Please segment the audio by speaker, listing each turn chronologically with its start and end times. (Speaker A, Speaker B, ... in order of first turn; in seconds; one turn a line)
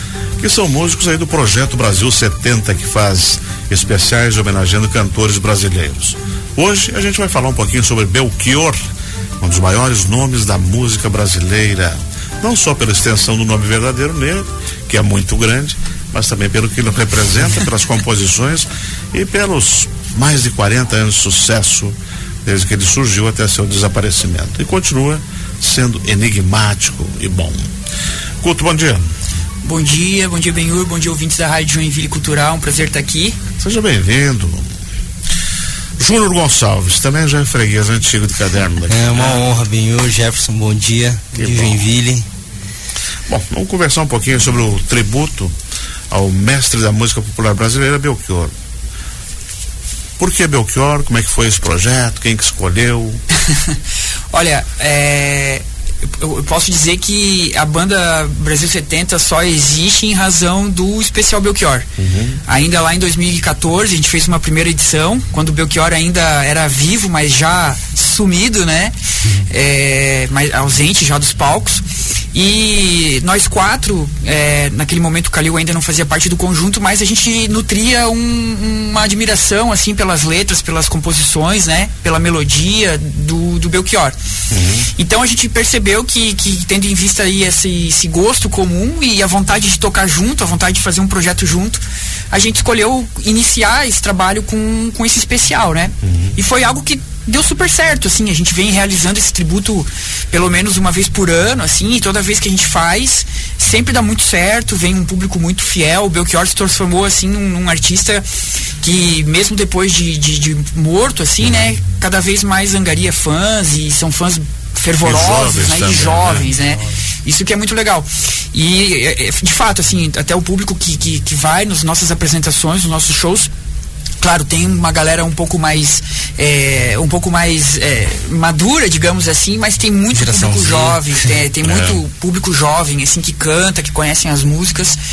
Speaker A: 0.4-8.8
Speaker A: 9.4-27.7
Speaker A: 28.4-29.1
Speaker B: 29.6-33.4
Speaker A: 33.6-34.7
Speaker A: 36.0-39.4
Speaker C: 38.9-42.3
Speaker A: 41.4-41.9
Speaker A: 43.3-45.5
Speaker A: 46.1-48.5
Speaker A: 50.2-53.2
Speaker B: 54.3-55.6
Speaker B: 56.2-61.9
Speaker A: 62.0-62.4
Speaker B: 62.5-84.2
Speaker A: 84.5-84.9
Speaker B: 84.9-108.2
Speaker A: 96.0-96.3
Speaker B: 108.8-123.5
Speaker A: 115.0-116.5
Speaker B: 124.2-135.0
Speaker C: 130.1-131.2
Speaker A: 131.6-132.0